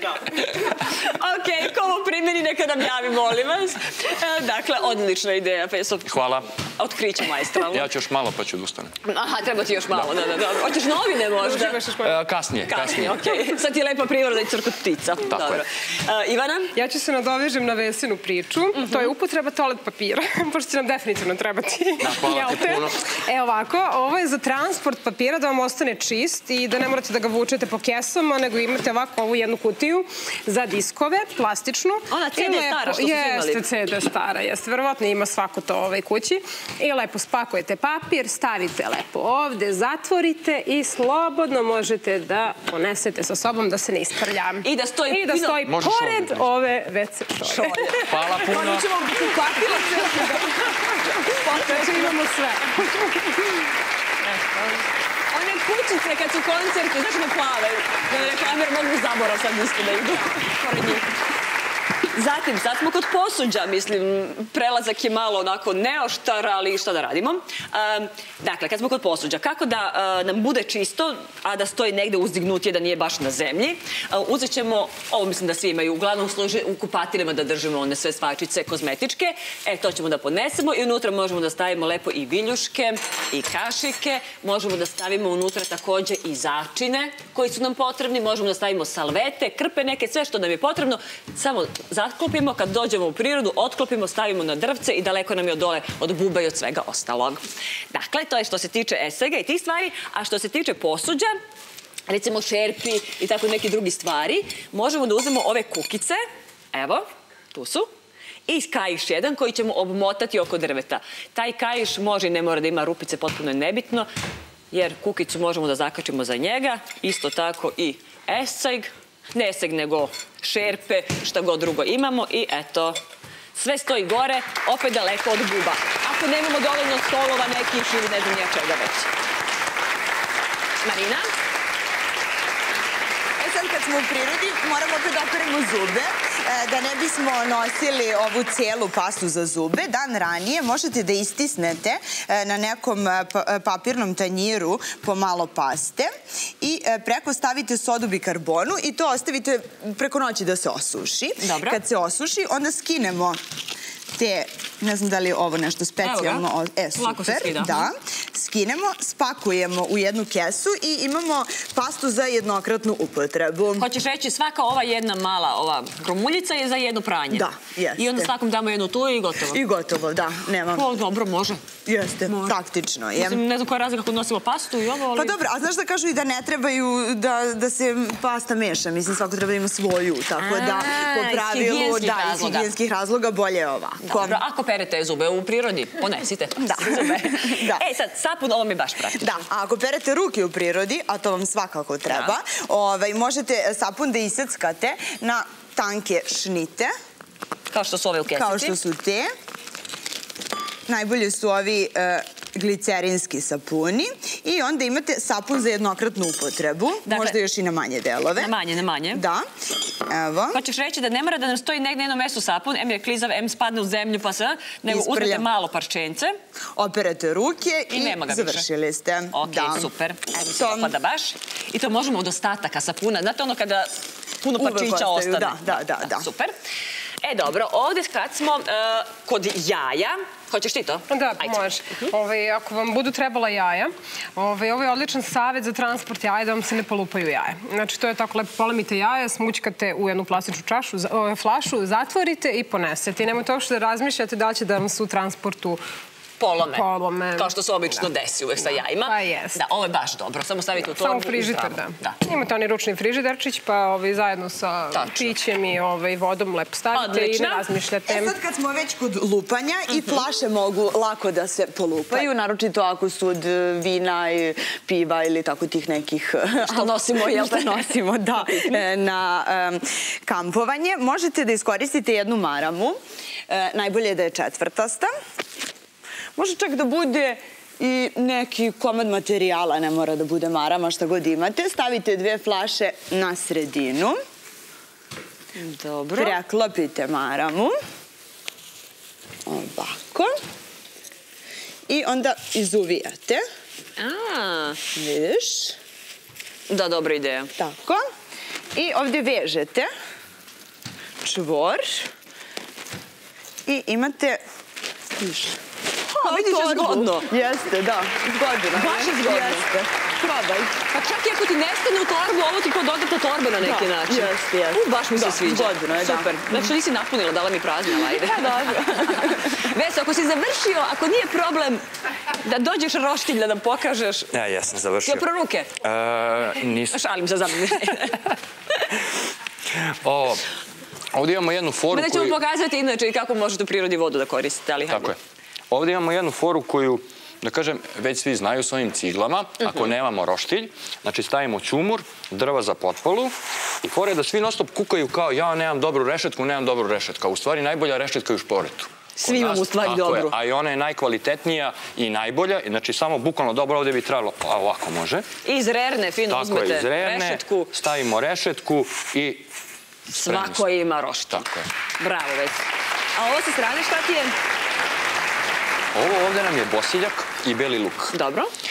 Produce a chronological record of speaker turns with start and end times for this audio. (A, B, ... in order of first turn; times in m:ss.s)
0:00.2-0:06.2 A
0:06.1-0:06.5 B
0:06.8-0:07.9 A
0:07.7-0:08.9 B
0:09.0-0:11.8 A
0:11.4-0:12.2 C
0:12.0-0:13.2 B
0:12.7-0:16.8 A
0:15.3-0:15.6 B
0:16.8-0:53.3 C
0:18.8-0:19.1 A
0:22.0-0:23.0 B
0:32.1-0:33.7 A
0:44.6-0:45.6 A
0:45.6-0:46.5 B
0:47.4-0:52.2 A
0:48.1-0:48.9 B
0:54.2-1:01.1 A
1:02.1-1:41.4 A
1:42.1-1:46.2 A
1:46.7-1:47.9 A
1:48.5-1:54.1 A
1:54.7-2:03.0 A
2:03.6-2:09.1 A
2:10.8-2:11.3 A
2:13.4-2:26.1 D
2:26.6-2:33.4 D
2:31.4-2:31.8 A
2:34.2-2:43.9 D
2:36.0-2:37.9 A
2:43.8-2:49.6 A
2:47.3-2:48.3 D
2:49.5-2:50.9 D
2:50.7-2:51.6 A
2:51.9-2:53.4 D
2:52.3-2:52.6 A
2:53.2-2:55.4 A
2:55.1-3:04.4 D
3:00.4-3:02.7 A
3:04.0-3:09.4 A
3:06.6-3:07.8 D
3:09.2-3:16.9 D
3:12.1-3:12.3 A
3:17.7-3:18.8 A
3:18.3-3:19.3 D
3:20.9-3:28.5 D
3:27.1-3:27.4 A
3:28.4-3:29.2 A
3:29.1-3:29.4 D
3:30.1-3:30.6 D
3:30.5-3:36.3 A
3:34.9-3:35.5 D
3:36.8-3:39.9 D
3:37.9-3:38.7 A
3:39.3-3:46.5 A
3:40.5-3:40.9 D
3:44.6-3:46.3 D
3:47.2-3:52.1 A
3:51.1-4:05.8 C
4:06.4-4:12.2 A
4:06.7-4:08.0 C
4:09.0-4:09.6 C
4:11.0-4:18.3 C
4:14.9-4:15.4 A
4:16.9-4:17.6 A
4:18.1-4:33.0 D
4:26.6-4:28.0 A
4:33.5-4:35.1 D
4:36.4-4:44.2 D
4:45.6-4:46.4 A
4:46.2-4:47.8 D
4:49.5-4:50.3 D
4:51.9-4:53.4 D
4:54.0-4:54.8 A
4:55.0-4:55.8 D
4:56.7-4:57.5 A
4:57.6-4:58.0 D
4:58.8-4:59.9 D
5:01.2-5:02.1 D
5:03.7-5:04.4 D
5:05.2-5:05.6 D
5:06.1-5:07.3 A
5:06.2-5:09.9 D
5:08.7-5:09.7 A
5:10.2-5:21.8 A
5:13.6-5:16.7 D
5:18.1-5:19.5 D
5:22.4-5:24.3 A
5:24.3-5:25.2 B
5:25.0-5:25.8 A
5:25.8-5:27.0 B
5:26.9-5:28.8 A
5:29.7-5:30.4 B
5:31.1-5:32.4 B
5:31.9-5:35.1 A
5:34.9-5:35.2 B
5:35.7-5:55.2 B
5:49.2-5:50.3 A
5:55.4-5:57.7 A
5:56.3-5:59.5 B
6:00.1-6:01.5 A
6:00.2-6:00.7 B
6:01.3-6:01.7 B
6:02.0-6:02.6 A
6:03.2-6:04.4 A
6:05.9-6:08.1 B
6:08.1-6:08.5 A